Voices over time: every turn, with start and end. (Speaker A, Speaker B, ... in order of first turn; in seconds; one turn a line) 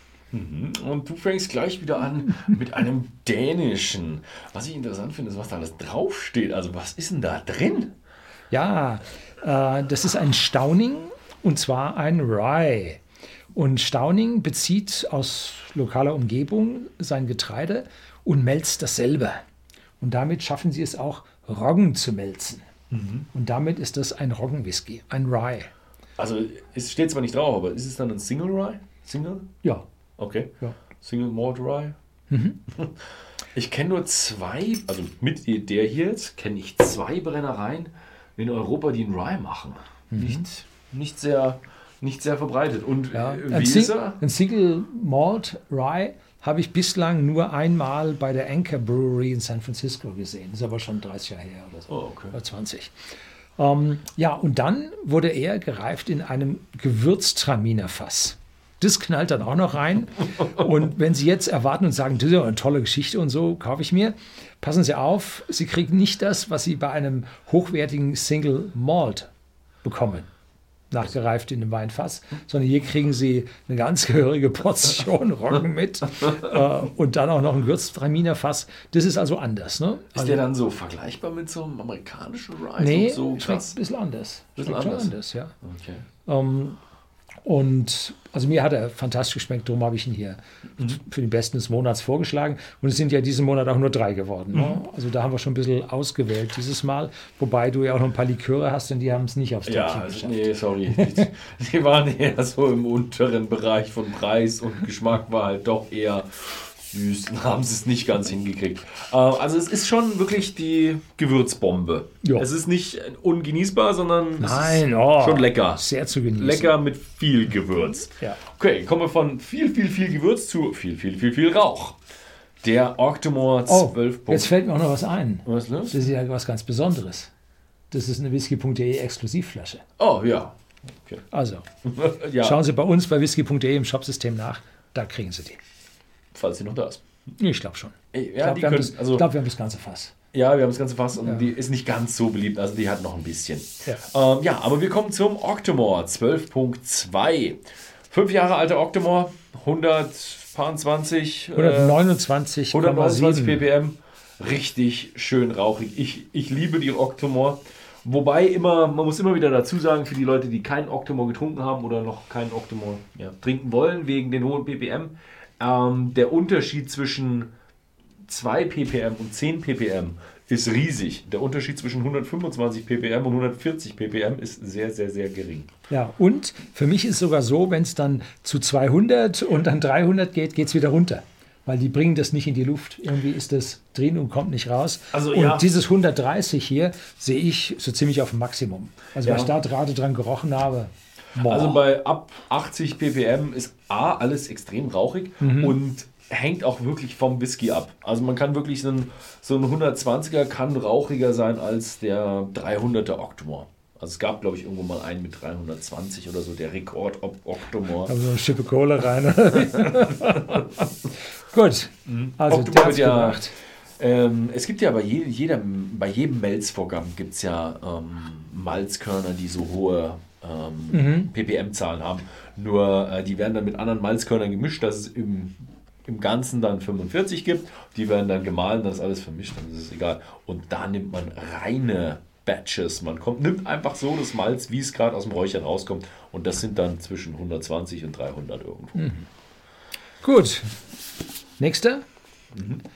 Speaker A: 0.3-7.9
Speaker B: 8.5-13.0
Speaker B: 13.6-19.4
Speaker B: 20.0-22.6
Speaker A: 22.9-23.3
Speaker B: 23.3-25.7
Speaker A: 26.2-29.5
Speaker A: 30.2-31.9
Speaker B: 32.3-32.6
Speaker A: 32.8-33.0
Speaker A: 33.5-44.2
Speaker B: 40.1-40.5
Speaker B: 43.1-52.9
Speaker A: 51.9-52.4
Speaker B: 53.6-69.3
Speaker B: 69.8-70.3
Speaker B: 70.9-80.4
Speaker A: 80.2-83.8
Speaker B: 82.8-85.5
Speaker A: 84.6-86.1
Speaker B: 86.3-86.8
Speaker B: 87.5-101.3
Speaker A: 94.5-94.8
Speaker A: 99.7-115.8
Speaker B: 114.4-116.7
Speaker A: 116.4-122.0
Speaker A: 122.6-124.5
Speaker B: 123.7-127.3
Speaker A: 125.5-126.0
Speaker B: 127.9-129.8
Speaker A: 130.0-131.2
Speaker B: 131.3-131.7
Speaker A: 131.8-132.6
Speaker B: 132.4-135.6
Speaker A: 136.3-137.0
Speaker B: 137.4-140.1
Speaker A: 138.1-139.3
Speaker A: 140.3-152.0
Speaker B: 141.2-141.5
Speaker B: 151.6-153.7
Speaker A: 152.7-167.5
Speaker A: 168.3-175.7
Speaker B: 175.9-191.8
Speaker A: 185.1-185.7
Speaker A: 189.2-189.5
Speaker A: 191.4-208.1
Speaker B: 195.4-195.8
Speaker B: 208.1-210.9
Speaker B: 211.5-213.6
Speaker A: 212.1-213.4
Speaker A: 214.0-239.1
Speaker B: 220.9-221.3
Speaker B: 239.0-239.3
Speaker B: 240.2-240.8
Speaker B: 241.6-242.0
Speaker A: 242.5-242.8